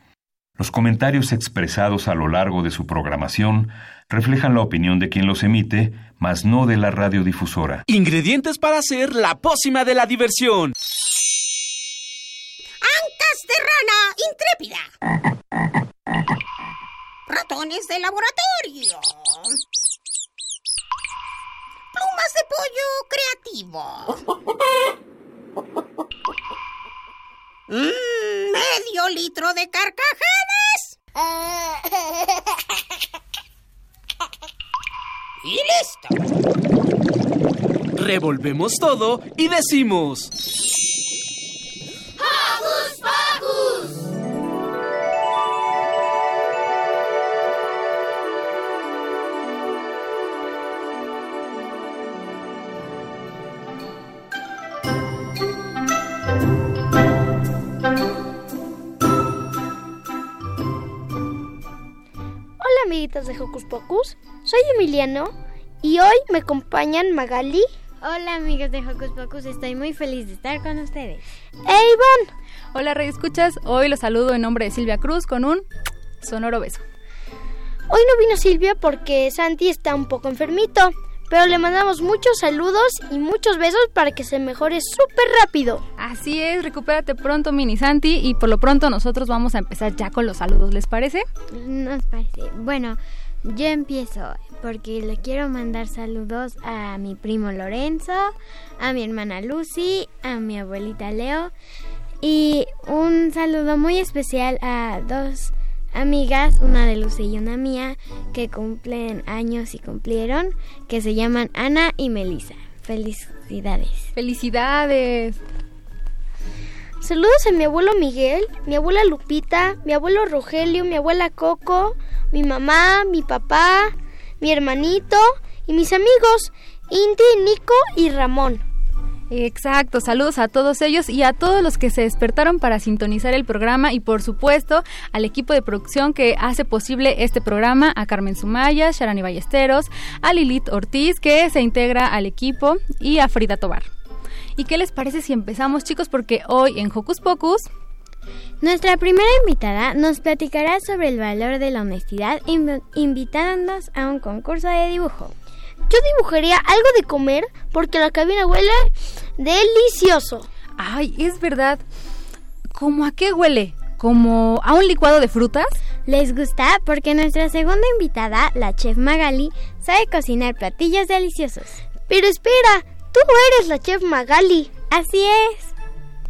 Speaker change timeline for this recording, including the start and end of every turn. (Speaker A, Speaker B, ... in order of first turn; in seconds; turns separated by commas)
Speaker A: 0.6-7.8, Speaker B: 7.9-10.7, Speaker C: 12.8-14.9, Speaker C: 17.3-19.5, Speaker C: 21.9-24.2, Speaker C: 27.7-31.8, Speaker C: 35.4-36.1, Speaker B: 37.9-40.3, Speaker C: 42.5-43.3, Speaker D: 62.6-67.7, Speaker E: 68.0-71.2, Speaker D: 71.6-72.3, Speaker F: 72.7-75.7, Speaker F: 76.2-76.8, Speaker D: 77.9-85.8, Speaker F: 86.0-91.2, Speaker E: 91.5-101.5, Speaker E: 102.2-114.1, Speaker F: 114.1-115.4, Speaker D: 117.0-128.6, Speaker F: 129.3-143.9, Speaker F: 144.6-147.7, Speaker E: 148.6-155.3, Speaker D: 155.9-160.5, Speaker F: 160.8-161.8, Speaker F: 162.7-165.8, Speaker E: 166.1-171.8, Speaker D: 172.1-174.7, Speaker E: 174.9-175.7